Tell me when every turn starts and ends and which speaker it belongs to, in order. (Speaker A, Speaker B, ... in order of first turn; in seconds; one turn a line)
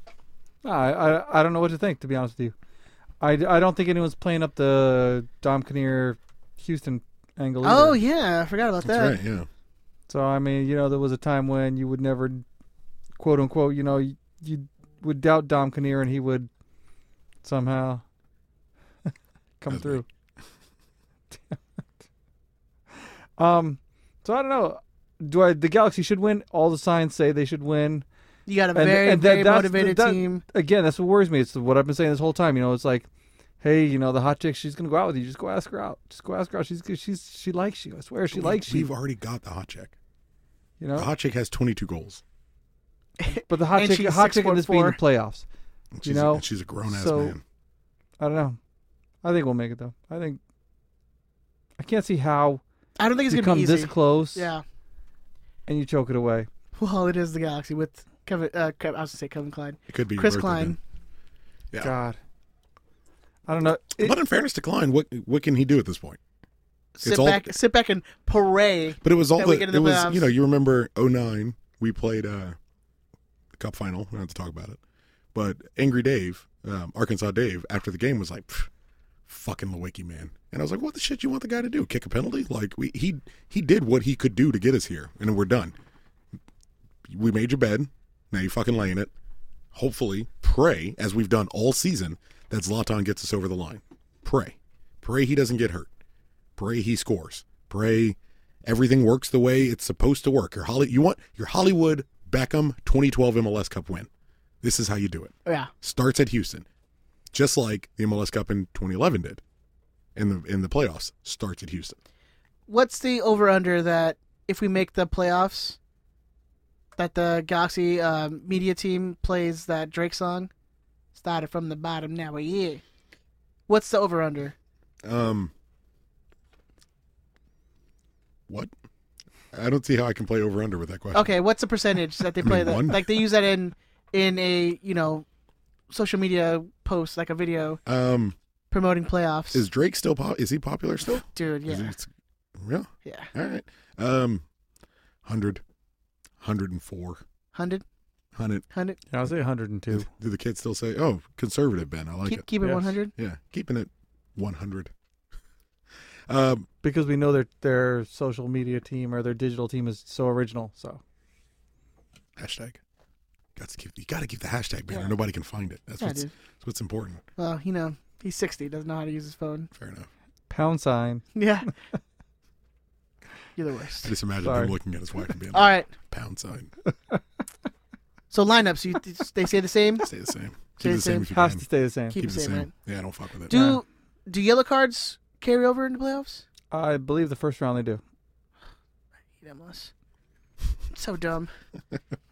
Speaker A: 0.6-2.5
Speaker A: 3.2-8.0
Speaker B: 7.6-9.2
Speaker C: 8.8-9.5
Speaker A: 10.1-12.4
Speaker A: 13.2-16.5
Speaker A: 17.4-18.0
Speaker A: 19.6-20.1
Speaker C: 19.7-20.0
Speaker A: 21.3-21.6
Speaker A: 23.4-28.1
Speaker B: 28.5-30.4
Speaker A: 28.8-33.1
Speaker A: 33.6-38.9
Speaker C: 38.3-40.0
Speaker A: 40.8-41.1
Speaker C: 41.0-42.2
Speaker B: 43.2-45.0
Speaker A: 43.5-45.5
Speaker C: 46.0-47.4
Speaker A: 46.0-47.4
Speaker A: 48.2-48.6
Speaker A: 49.2-50.4
Speaker A: 51.8-52.6
Speaker B: 53.0-54.6
Speaker A: 53.3-54.5
Speaker A: 55.7-56.5
Speaker B: 56.8-60.8
Speaker C: 59.9-60.8
Speaker A: 61.8-62.2
Speaker A: 63.5-64.2
Speaker C: 64.0-66.2
Speaker B: 67.0-70.3
Speaker C: 67.0-67.5
Speaker C: 69.0-72.6
Speaker C: 73.5-74.8
Speaker C: 75.3-78.7
Speaker C: 79.3-85.8
Speaker C: 87.1-89.1
Speaker C: 89.7-95.9
Speaker C: 96.6-104.1
Speaker C: 104.6-106.7
Speaker B: 105.5-105.7
Speaker C: 107.3-109.4
Speaker C: 110.2-112.0
Speaker B: 112.7-115.8
Speaker B: 117.0-120.5
Speaker B: 121.2-122.8
Speaker B: 123.7-124.5
Speaker C: 125.0-125.5
Speaker C: 129.5-131.3
Speaker B: 131.1-135.2
Speaker C: 132.4-133.2
Speaker B: 135.9-137.8
Speaker C: 137.9-138.4
Speaker B: 138.7-139.7
Speaker C: 139.5-144.4
Speaker B: 141.1-141.9
Speaker B: 143.1-143.3
Speaker C: 145.2-145.6
Speaker C: 146.4-147.2
Speaker B: 147.5-147.8
Speaker C: 148.3-148.7
Speaker B: 148.7-149.0
Speaker A: 149.1-150.1
Speaker C: 149.9-152.5
Speaker B: 152.2-153.1
Speaker A: 152.6-152.9
Speaker C: 153.2-154.9
Speaker C: 156.3-156.7
Speaker A: 156.8-161.0
Speaker C: 162.4-162.8
Speaker C: 163.6-167.2
Speaker B: 166.0-166.3
Speaker B: 167.4-169.7
Speaker C: 169.7-170.1
Speaker A: 170.5-171.3
Speaker B: 171.3-171.7
Speaker B: 173.6-174.1
Speaker C: 174.0-176.7
Speaker A: 174.4-174.8
Speaker B: 175.5-175.9
Speaker B: 178.3-180.1
Speaker C: 180.0-183.7
Speaker B: 180.8-181.3
Speaker A: 181.3-182.2
Speaker B: 182.1-182.7
Speaker B: 183.5-186.4
Speaker A: 183.5-183.8
Speaker A: 186.7-188.0
Speaker B: 189.4-189.9
Speaker B: 190.9-191.5